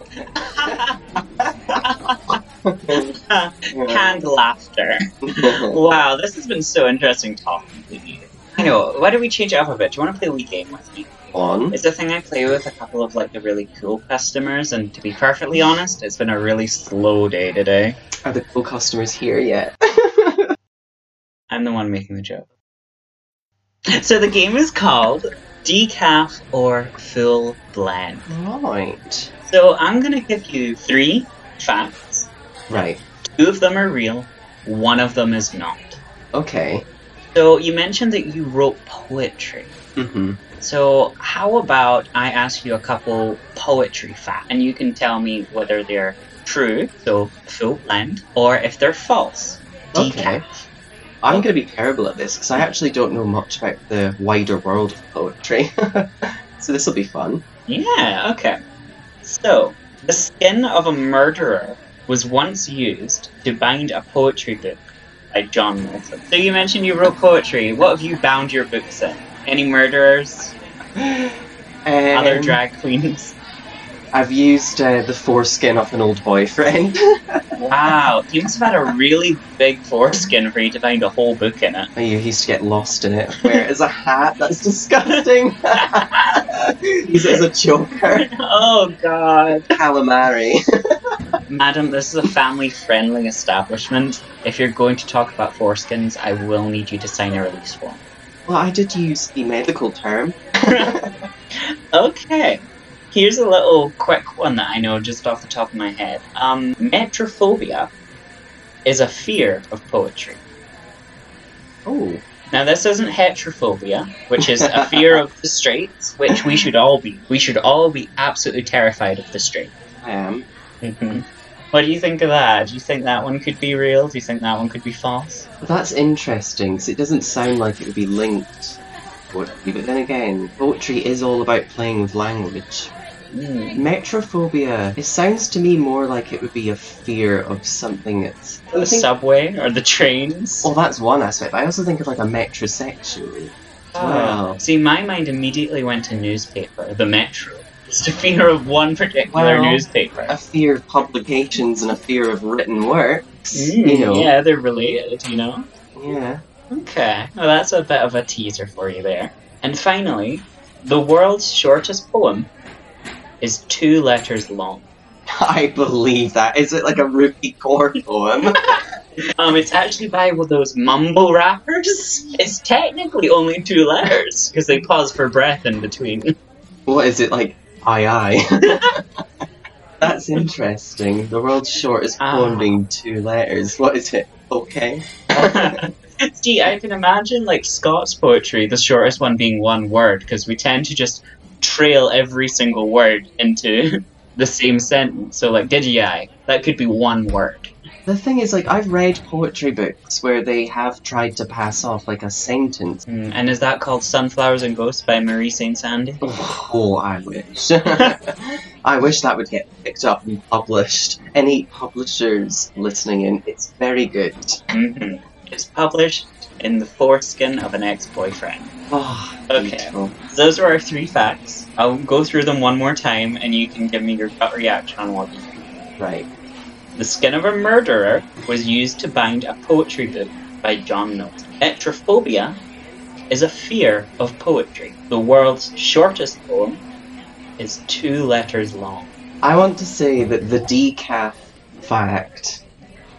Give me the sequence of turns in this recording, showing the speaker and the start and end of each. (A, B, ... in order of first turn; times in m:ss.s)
0:00.4-0:01.0 A
0:01.8-0:02.4 A
0:02.7-0:03.0 B
0:03.3-0:11.1 A
0:03.7-0:04.2 B
0:05.3-0:05.8 B
0:11.3-0:11.8 B
0:11.7-0:18.0 A
0:18.3-0:20.5 B
0:21.5-0:22.5 A
0:24.0-0:28.3 A
0:28.3-0:29.3 B
0:29.5-0:32.3 A
0:32.7-0:33.0 B
0:33.3-0:36.0 A
0:36.3-0:36.8 B
0:37.3-0:39.7 A
0:40.0-0:40.4 B
0:40.6-0:50.6 A
0:49.9-0:50.4 B
0:51.2-0:57.4 B
0:57.7-0:58.6 A
0:59.2-1:04.8 A
1:05.3-1:10.5 A
1:11.0-1:12.6 B
1:12.1-1:13.4 A
1:14.1-1:17.7 B
1:17.6-1:21.9 A
1:22.0-1:26.1 B
1:25.8-1:26.4 A
1:27.1-1:28.3 B
1:28.1-1:29.7 A
1:29.7-1:30.6 B
1:31.5-1:38.0 A
1:38.5-1:41.2 B
1:41.9-1:47.9 A
1:48.8-1:50.4 A
1:51.9-1:52.2 B
1:52.5-1:59.7 A
1:54.5-1:55.0 B
2:00.0-2:00.4 B
2:00.8-2:05.5 A
2:05.6-2:08.8 B
2:09.3-2:12.9 B
2:13.3-2:13.8 A
2:13.8-2:19.1 B
2:18.8-2:20.7 A
2:20.6-2:24.6 B
2:23.9-2:30.4 A
2:29.3-2:34.3 B
2:33.5-2:35.7 A
2:36.0-2:36.4 B
2:36.7-2:42.5 A
2:43.4-2:44.9 A
2:45.4-2:48.8 B
2:49.4-2:56.2 A
2:56.9-2:59.0 B
3:00.0-3:05.8 B
3:02.2-3:02.8 A
3:05.4-3:17.7 A
3:18.1-3:23.0 B
3:23.1-3:26.2 A
3:26.2-3:34.6 B
3:34.7-3:38.7 A
3:38.9-3:40.2 B
3:39.5-3:45.8 A
3:46.0-3:46.3 B
3:47.0-3:52.6 A
3:53.3-3:56.8 A
3:57.6-3:59.1 A
3:59.4-4:02.6 B